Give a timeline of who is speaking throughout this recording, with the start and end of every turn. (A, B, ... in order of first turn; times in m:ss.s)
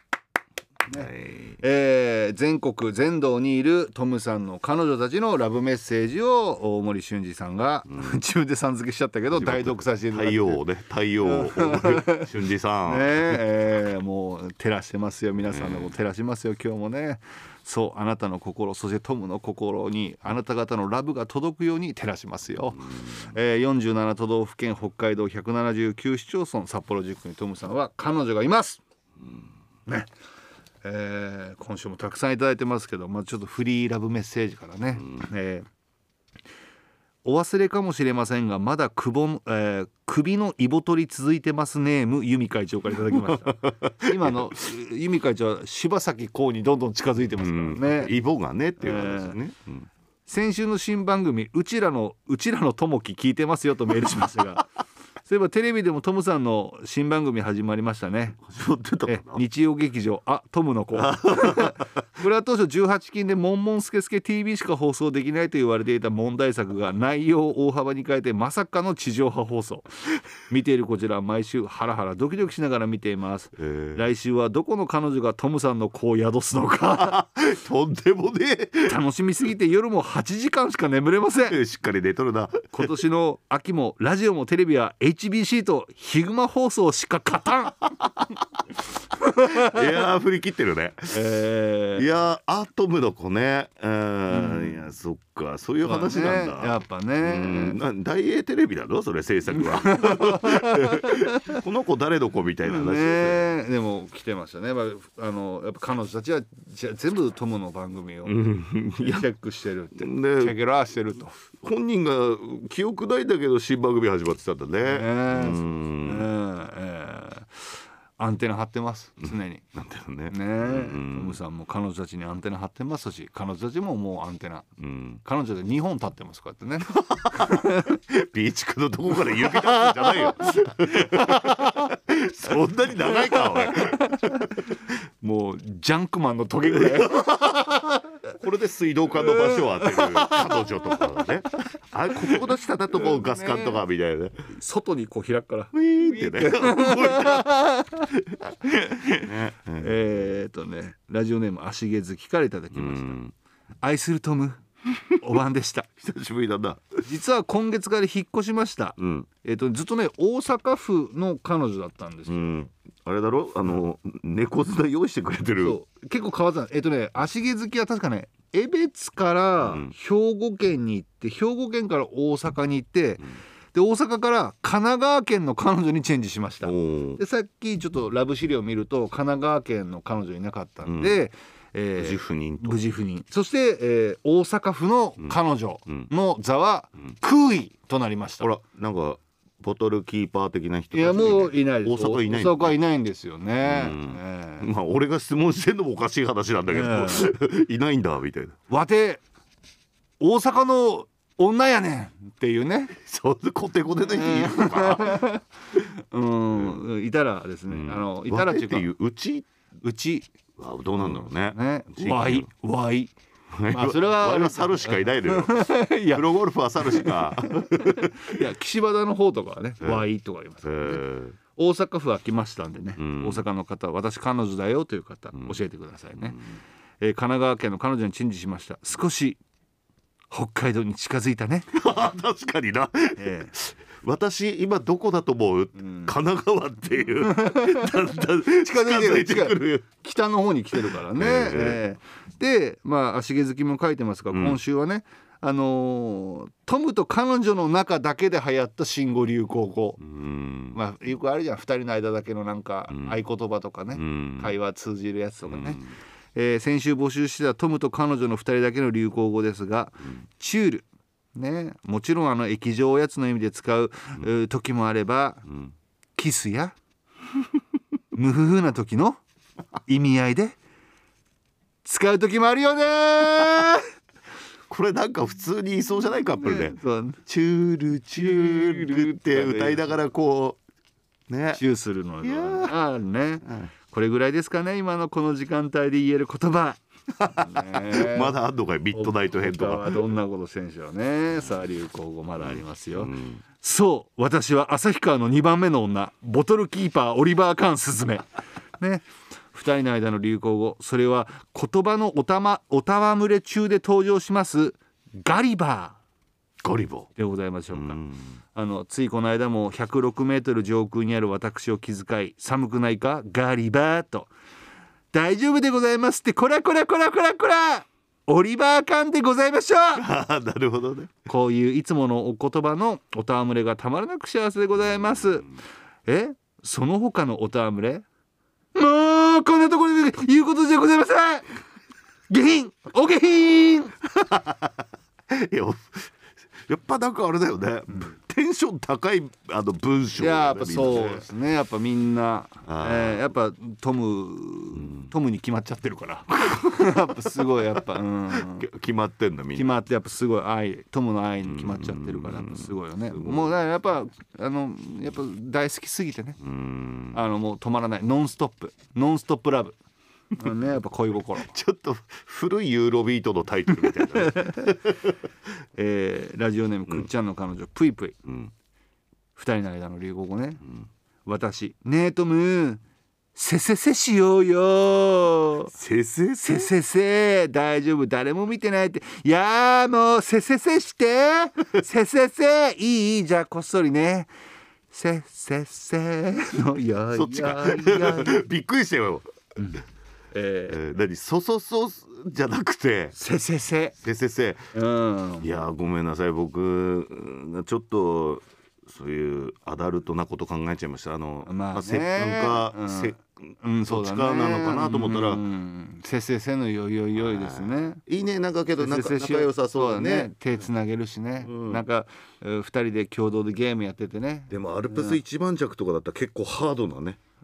0:00.9-0:10.6 A
0:00.9-0:01.6 B
0:09.3-0:13.4 B
0:11.2-0:12.3 A
0:12.9-0:28.8 A
0:15.5-0:15.9 B
0:30.8-0:35.7 A
0:37.2-0:48.1 A
0:43.0-0:44.5 B
0:47.4-0:49.9 B
0:48.8-0:49.4 A
0:50.3-0:54.6 A
0:55.2-0:58.4 A
0:58.4-0:59.4 B
0:59.0-1:17.2 A
1:01.0-1:01.8 B
1:13.6-1:14.0 B
1:17.0-1:19.0 B
1:18.9-1:21.6 A
1:21.5-1:22.9 B
1:22.7-1:27.9 A
1:29.2-1:29.9 A
1:29.4-1:31.2 B
1:31.1-1:32.1 A
1:32.0-1:43.5 B
1:34.3-1:34.9 A
1:35.8-1:37.8 A
1:39.6-1:41.6 A
1:42.7-1:48.4 A
1:48.2-1:49.3 B
1:49.0-1:51.3 A
1:50.0-1:50.6 B
1:51.6-1:56.3 B
1:54.8-1:59.6 A
1:59.8-2:01.4 B
2:00.3-2:04.7 A
2:04.8-2:05.2 B
2:05.2-2:08.0 A
2:06.9-2:14.1 B
2:09.4-2:11.9 A
2:13.1-2:18.0 A
2:16.7-2:17.7 B
2:18.3-2:24.4 B
2:19.2-2:21.2 A
2:23.0-2:23.7 A
2:24.6-2:33.2 A
2:25.7-2:27.5 B
2:29.2-2:30.1 B
2:32.7-2:33.3 B
2:33.8-2:34.6 A
2:35.2-2:35.9 A
2:36.0-2:37.0 B
2:37.1-2:42.6 A
2:39.0-2:39.3 B
2:42.3-2:45.8 B
2:45.6-3:08.5 A
2:49.6-2:49.9 B
2:56.6-2:57.2 B
3:00.9-3:01.2 B
3:02.0-3:02.8 B
3:08.4-3:12.8 B
3:10.9-3:14.7 A
3:13.6-3:18.6 B
3:16.7-3:17.3 A
3:18.7-3:19.2 A
3:20.2-3:23.0 A
3:23.0-3:25.3 B
3:24.1-3:28.9 A
3:26.5-3:26.8 B
3:27.7-3:29.5 B
3:29.8-3:30.3 A
3:30.6-3:32.5 B
3:31.0-3:33.1 A
3:33.5-3:38.3 B
3:33.7-3:36.2 A
3:36.8-3:41.0 A
3:40.6-3:41.4 B
3:41.6-3:46.4 A
3:43.0-3:43.4 B
3:47.0-3:49.4 A
3:50.3-3:51.7 A
3:51.7-3:59.9 B
3:53.2-3:53.5 A
3:55.8-3:56.1 A
3:57.2-4:10.0 A
4:00.8-4:01.8 B
4:04.3-4:04.6 B
4:10.0-4:10.8 B
4:10.7-4:15.8 A
4:12.9-4:13.2 B
4:13.9-4:14.5 B
4:15.4-4:15.8 B
4:16.3-4:25.5 A
4:26.2-4:26.8 A
4:28.1-4:29.2 A
4:29.9-4:30.6 A
4:31.8-4:33.8 A
4:34.7-4:36.8 B
4:36.4-4:37.2 A
4:37.3-4:40.6 B
4:38.2-4:39.9 A
4:41.3-4:41.6 B
4:41.5-4:48.4 A
4:42.2-4:42.8 B
4:47.2-4:50.1 B
4:48.9-4:58.2 A
4:52.4-4:53.4 B
4:58.8-5:06.0 A
5:06.6-5:07.1 B
5:07.2-5:08.0 A
5:07.7-5:08.2 B
5:08.5-5:14.3 A
5:15.1-5:20.1 A
5:19.9-5:21.1 B
5:21.2-5:25.5 A
5:26.0-5:28.0 A
5:28.8-5:31.5 A
5:32.3-5:34.0 A
5:34.2-5:36.1 B
5:36.7-5:41.2 B
5:40.2-5:48.6 A
5:42.6-5:43.3 B
5:44.8-5:45.1 B
5:46.4-5:49.7 B
5:49.5-5:56.4 A
5:51.4-5:53.6 B
5:56.4-5:57.2 B
5:57.1-5:59.8 A
6:00.4-6:01.5 A
6:01.4-6:05.1 B
6:04.2-6:04.6 A
6:05.8-6:08.2 A
6:08.2-6:08.5 B
6:09.3-6:10.6 A
6:11.2-6:12.8 A
6:13.3-6:15.7 A
6:15.7-6:16.7 B
6:16.4-6:24.3 A
6:24.9-6:28.4 A
6:27.1-6:29.3 B
6:29.6-6:30.8 A
6:30.7-6:33.2 B
6:33.2-6:34.0 A
6:34.0-6:34.7 B
6:34.7-6:35.5 A
6:35.4-6:43.2 B
6:41.5-6:48.0 A
6:43.9-6:45.4 B
6:47.1-6:50.3 B
6:48.8-6:55.2 A
6:51.4-6:51.8 B
6:54.5-6:57.2 B